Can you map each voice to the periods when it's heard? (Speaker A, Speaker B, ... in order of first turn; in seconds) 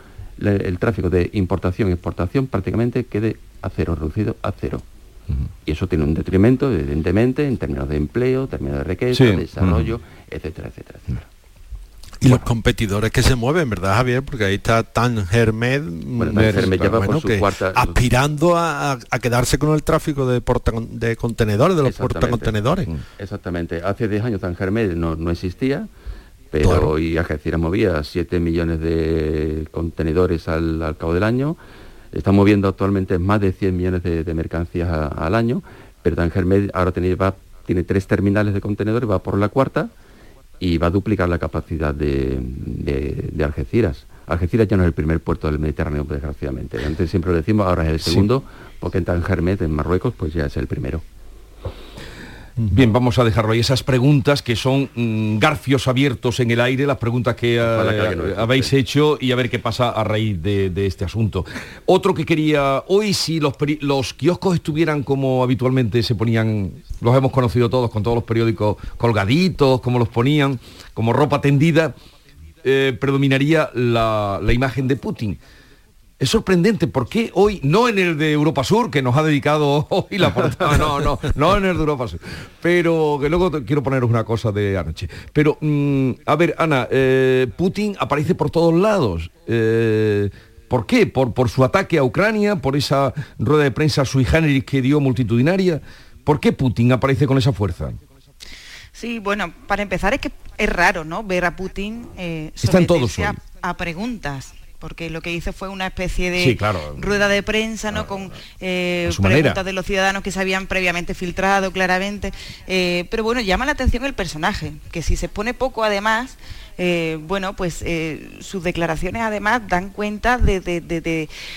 Speaker A: 0.4-4.8, 5.7-11.2, 16.2-18.0, 21.8-25.9, 26.5-31.6, 32.1-39.9, 40.6-51.0, 57.6-58.7
Speaker B: 9.1-9.9, 16.3-16.8, 48.0-48.3, 52.7-72.0, 72.6-75.4, 76.2-98.0, 102.6-103.4, 106.4-107.0, 109.0-109.6
Speaker C: 12.2-22.9, 26.6-26.9
Speaker D: 98.9-121.3